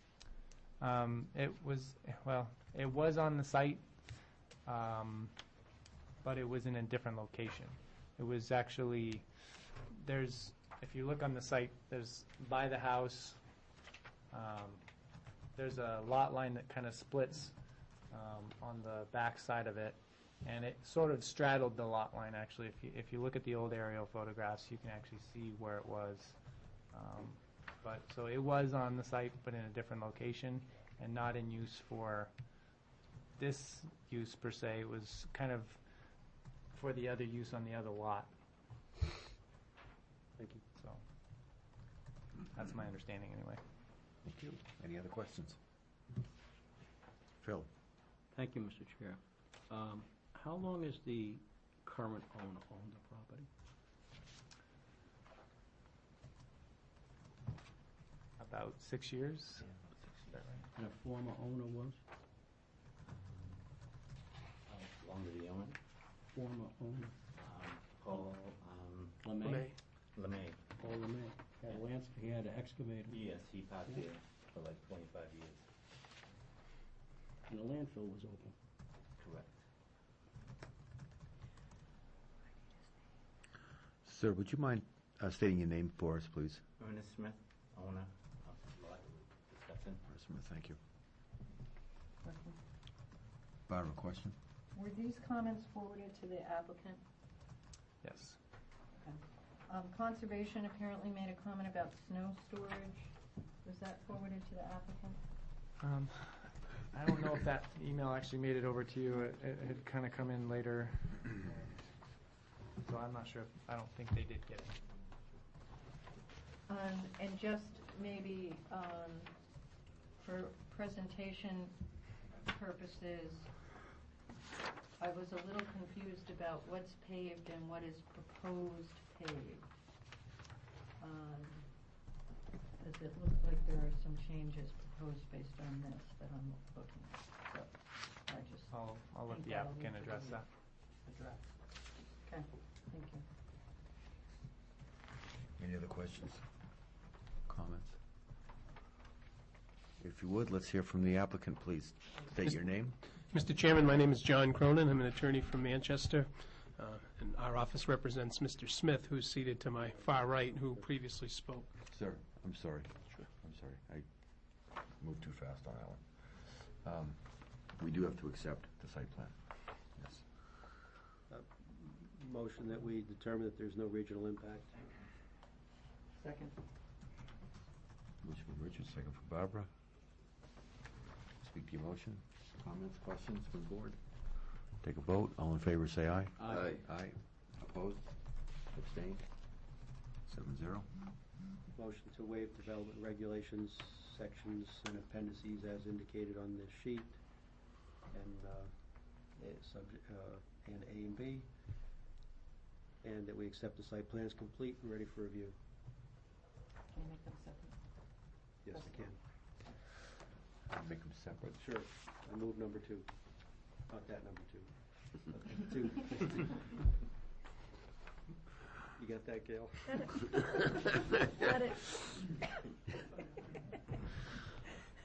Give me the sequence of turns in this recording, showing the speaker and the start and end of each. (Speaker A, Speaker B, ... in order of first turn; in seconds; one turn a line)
Speaker A: 0.8-3.9
Speaker A: 4.7-5.3
Speaker A: 6.2-9.3
Speaker A: 9.9-13.4
Speaker A: 14.3-14.8
Speaker A: 15.6-17.6
Speaker A: 18.1-26.4
Speaker A: 26.9-32.3
Speaker A: 33.4-35.8
Speaker A: 36.7-38.3
Speaker B: 40.4-40.6
Speaker A: 42.5-43.6
Speaker C: 44.2-45.6
Speaker C: 47.4-47.7
Speaker D: 48.3-53.5
Speaker A: 58.4-59.7
Speaker E: 59.6-60.6
Speaker A: 60.3-60.7
Speaker D: 60.8-62.0
Speaker E: 63.0-63.7
Speaker E: 64.7-65.8
Speaker D: 66.3-67.2
Speaker E: 67.3-69.3
Speaker D: 69.2-69.8
Speaker F: 69.4-69.8
Speaker E: 70.1-70.7
Speaker D: 70.8-73.2
Speaker E: 73.1-75.7
Speaker D: 77.5-78.5
Speaker E: 79.2-79.6
Speaker C: 84.0-86.6
Speaker E: 86.8-90.0
Speaker C: 90.1-90.8
Speaker G: 92.2-92.6
Speaker C: 93.7-94.4
Speaker G: 94.7-97.0
Speaker A: 98.0-98.4
Speaker G: 99.0-105.2
Speaker A: 105.8-112.0
Speaker A: 112.8-114.8
Speaker G: 116.7-119.4
Speaker G: 120.2-121.7
Speaker G: 122.3-123.5
Speaker G: 125.0-129.6
Speaker G: 131.0-131.7
Speaker G: 132.8-140.4
Speaker A: 138.7-140.5
Speaker G: 141.1-141.4
Speaker G: 142.2-143.2
Speaker C: 145.6-146.4
Speaker C: 147.5-148.0
Speaker C: 150.0-153.0
Speaker F: 153.2-161.7
Speaker C: 161.9-164.1
Speaker C: 165.0-169.4
Speaker C: 169.9-170.2
Speaker B: 171.3-174.8
Speaker G: 176.2-176.5
Speaker C: 178.2-179.7
Speaker C: 181.4-189.3
Speaker D: 186.4-186.8
Speaker C: 190.3-190.9
Speaker B: 191.7-197.2
Speaker B: 198.1-201.5
Speaker B: 203.0-205.6
Speaker G: 206.9-207.8
Speaker B: 208.6-209.2
Speaker C: 210.7-211.6
Speaker B: 211.6-213.1
Speaker B: 213.8-216.7
Speaker B: 219.0-220.3
Speaker G: 221.4-221.7